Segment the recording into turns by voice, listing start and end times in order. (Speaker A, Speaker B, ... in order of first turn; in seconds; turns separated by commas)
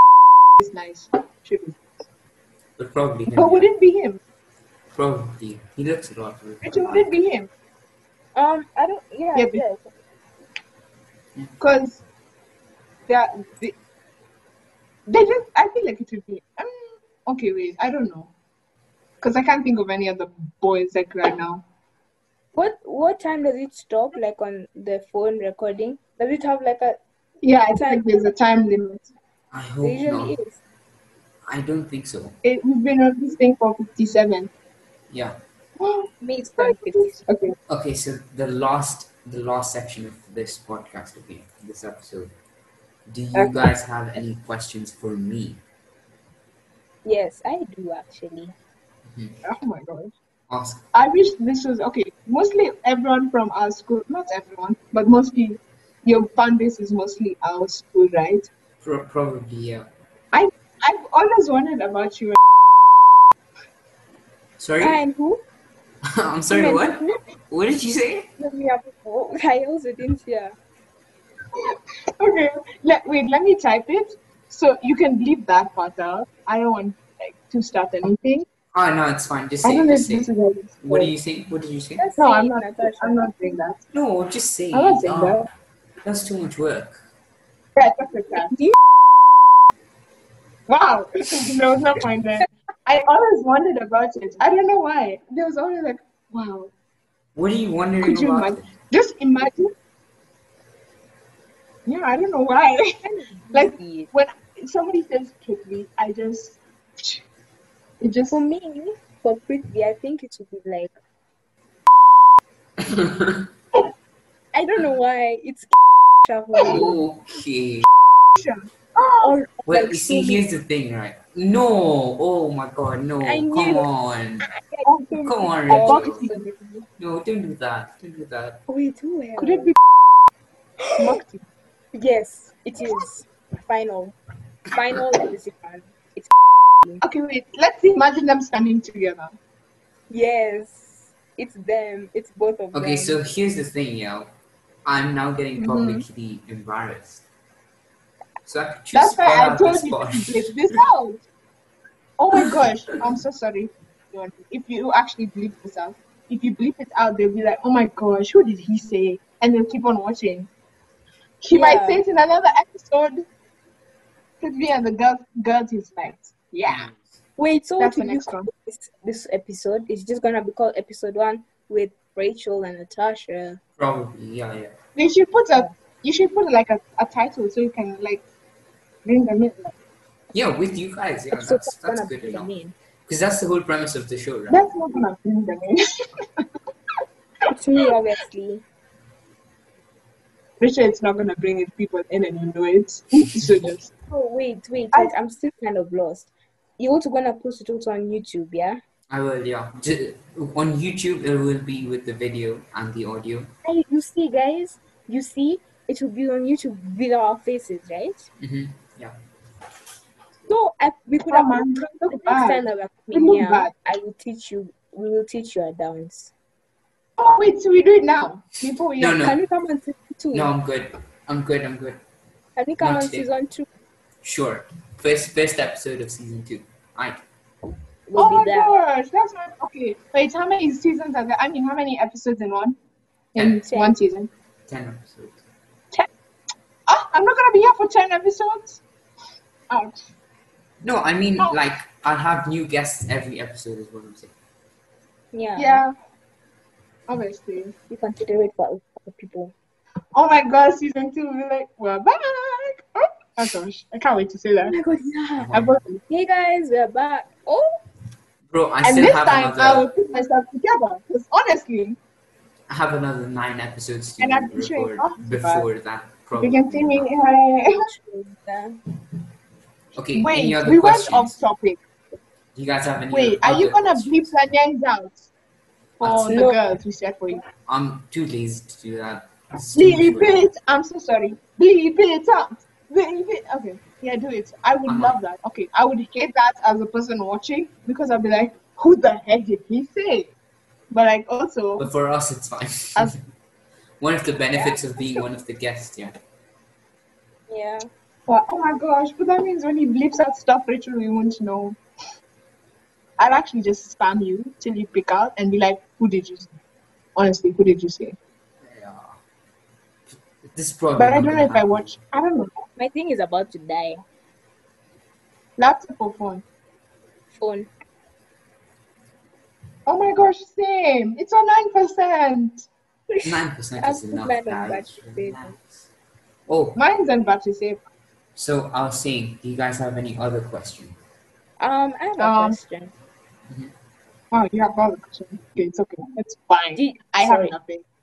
Speaker A: 0.6-1.9, Speaker B: 2.8-3.7, Speaker A: 3.3-4.2, Speaker B: 4.9-7.1, Speaker A: 6.6-7.5, Speaker C: 8.3-9.9, Speaker A: 9.3-9.6, Speaker A: 11.6-12.0, Speaker A: 13.1-13.8, Speaker A: 15.1-18.3, Speaker A: 19.2-21.6, Speaker C: 22.5-27.0, Speaker A: 27.4-29.1, Speaker C: 27.7-28.2, Speaker B: 29.5-30.4, Speaker C: 29.8-30.6, Speaker B: 31.4-32.4, Speaker A: 32.4-34.5, Speaker B: 35.1-35.4, Speaker A: 35.8-37.5, Speaker C: 36.2-37.2, Speaker B: 37.7-42.3, Speaker B: 43.1-45.6, Speaker C: 47.0-48.5, Speaker B: 49.1-49.4, Speaker A: 49.4-50.1, Speaker B: 50.5-50.8, Speaker A: 50.9-58.5, Speaker B: 58.8-59.9, Speaker A: 60.3-62.4, Speaker B: 64.6-65.0, Speaker C: 64.8-65.4, Speaker B: 66.0-68.3, Speaker C: 66.5-67.2, Speaker C: 68.4-70.5, Speaker A: 71.5-78.5, Speaker B: 78.7-80.3, Speaker A: 79.6-81.1, Speaker B: 80.8-82.0, Speaker C: 82.0-83.3, Speaker A: 82.2-83.8, Speaker B: 83.9-85.5, Speaker A: 84.7-85.5, Speaker B: 86.0-87.0, Speaker A: 87.7-88.5, Speaker C: 88.5-88.8, Speaker A: 90.7-96.7, Speaker B: 97.3-98.7, Speaker A: 98.0-99.7, Speaker A: 101.8-103.0, Speaker C: 103.0-104.1, Speaker A: 103.5-107.2, Speaker A: 108.0-108.4, Speaker C: 108.3-110.9, Speaker B: 112.8-113.5, Speaker C: 114.5-117.0, Speaker A: 116.5-116.8, Speaker B: 116.6-117.8, Speaker A: 118.3-119.3, Speaker C: 119.2-120.5, Speaker B: 119.7-124.5, Speaker C: 123.2-123.9, Speaker C: 124.5-126.5, Speaker A: 124.8-126.8, Speaker B: 125.2-126.3, Speaker B: 127.0-128.6, Speaker C: 128.7-129.7, Speaker A: 129.4-129.8, Speaker C: 130.8-131.2, Speaker A: 130.9-131.4, Speaker C: 131.9-134.2, Speaker C: 134.7-137.0, Speaker A: 137.0-139.4, Speaker C: 140.1-143.2, Speaker B: 142.7-144.3, Speaker B: 144.8-147.2, Speaker A: 145.6-146.0, Speaker B: 148.4-150.8, Speaker A: 148.9-151.2, Speaker A: 152.2-160.5, Speaker A: 161.4-163.2, Speaker C: 161.5-162.0, Speaker A: 164.4-166.9, Speaker B: 166.6-167.2, Speaker C: 167.4-173.6, Speaker A: 167.8-168.5, Speaker B: 173.8-174.7, Speaker A: 174.9-178.2, Speaker A: 179.0-179.7, Speaker B: 180.3-182.5, Speaker C: 181.3-182.7, Speaker B: 183.1-184.7, Speaker A: 184.5-186.5, Speaker C: 187.5-188.6, Speaker A: 190.6-193.9, Speaker C: 194.1-198.8, Speaker B: 199.1-203.5, Speaker C: 203.6-208.3, Speaker B: 208.4-209.1, Speaker C: 210.5-216.3, Speaker A: 211.3-213.7, Speaker A: 217.2-219.3, Speaker B: 219.0-219.4, Speaker C: 219.2-220.5, Speaker B: 220.3-222.0, Speaker C: 222.6-223.7, Speaker B: 222.8-223.3, Speaker B: 224.2-227.2, Speaker C: 228.1-228.7, Speaker A: 228.2-232.8, Speaker A: 233.3-234.3, Speaker B: 233.3-233.6, Speaker C: 233.6-234.0, Speaker B: 234.7-235.4, Speaker A: 236.9-238.8, Speaker A: 239.7-240.0, Speaker B: 240.8-244.3, Speaker C: 245.3-245.8, Speaker A: 245.6-245.9, Speaker A: 247.1-247.7, Speaker C: 247.9-249.5, Speaker A: 250.1-254.7, Speaker C: 254.7-255.5, Speaker B: 255.4-255.8, Speaker A: 255.5-256.0, Speaker C: 256.1-257.8, Speaker B: 258.5-259.9, Speaker A: 258.8-262.0, Speaker B: 262.7-267.1, Speaker A: 264.2-265.6, Speaker A: 266.4-267.9, Speaker C: 267.7-268.8, Speaker B: 269.9-271.4, Speaker A: 270.2-271.8, Speaker B: 272.5-274.3, Speaker A: 273.1-275.3, Speaker A: 276.0-277.4, Speaker B: 276.0-276.4, Speaker C: 276.3-276.6, Speaker B: 277.7-280.4, Speaker A: 279.7-290.3, Speaker B: 284.9-285.2, Speaker A: 290.9-291.9, Speaker B: 291.8-293.2, Speaker B: 294.0-296.1, Speaker A: 294.5-295.2, Speaker C: 297.5-297.9, Speaker A: 298.3-301.8, Speaker A: 303.2-306.6, Speaker A: 307.1-308.1, Speaker B: 308.6-309.1, Speaker B: 310.4-311.9, Speaker A: 311.0-312.5, Speaker C: 312.8-314.0, Speaker A: 315.6-316.4, Speaker C: 317.3-317.7, Speaker A: 319.9-322.6, Speaker C: 323.1-325.5, Speaker B: 323.2-325.9, Speaker B: 326.5-326.8, Speaker A: 326.8-327.8, Speaker B: 328.4-331.0, Speaker C: 331.6-332.9, Speaker A: 332.2-332.6, Speaker A: 334.3-337.8, Speaker C: 336.7-337.5